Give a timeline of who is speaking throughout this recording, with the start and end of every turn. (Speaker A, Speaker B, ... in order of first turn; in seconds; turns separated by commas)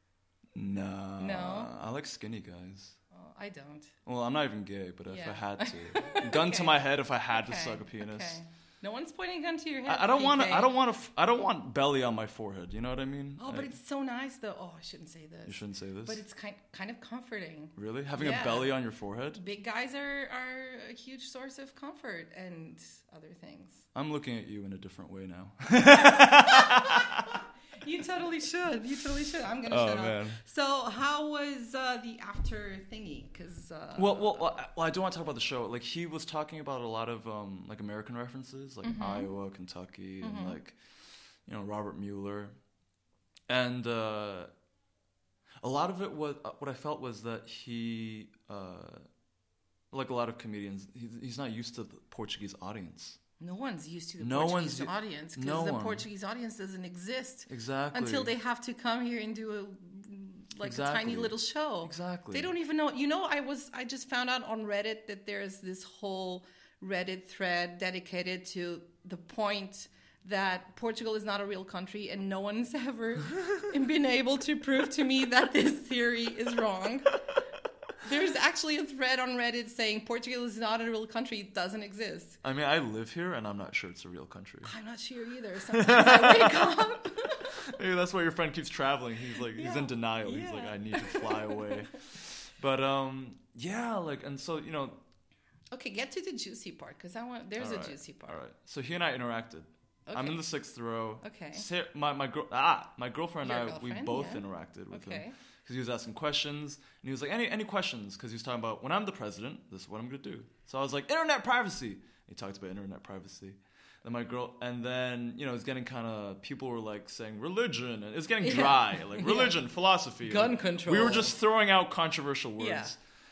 Speaker A: 0.6-3.0, Speaker B: 1.2-1.7, Speaker B: 3.1-3.9, Speaker A: 4.0-8.4, Speaker B: 5.1-10.8, Speaker A: 9.9-13.7, Speaker B: 13.4-18.8, Speaker A: 15.5-16.2, Speaker A: 17.8-19.4, Speaker B: 19.4-23.9, Speaker A: 23.9-27.4, Speaker B: 26.0-27.2, Speaker B: 27.8-34.5, Speaker A: 29.7-30.4, Speaker A: 34.0-40.8, Speaker B: 38.8-39.3, Speaker B: 40.2-40.6, Speaker A: 41.5-42.6, Speaker A: 43.5-44.5, Speaker A: 45.6-49.1, Speaker A: 49.9-53.2, Speaker B: 53.4-77.2, Speaker A: 54.2-56.1, Speaker A: 57.5-58.3, Speaker A: 60.6-62.5, Speaker B: 78.0-82.4, Speaker A: 82.4-84.7, Speaker B: 84.6-87.6, Speaker A: 85.7-86.8, Speaker A: 87.4-95.0, Speaker B: 89.4-91.9, Speaker B: 95.7-98.4, Speaker A: 97.6-123.0, Speaker B: 100.1-100.4, Speaker B: 101.2-101.7, Speaker B: 103.4-105.3, Speaker B: 118.4-119.6, Speaker B: 120.2-121.4, Speaker B: 122.6-122.9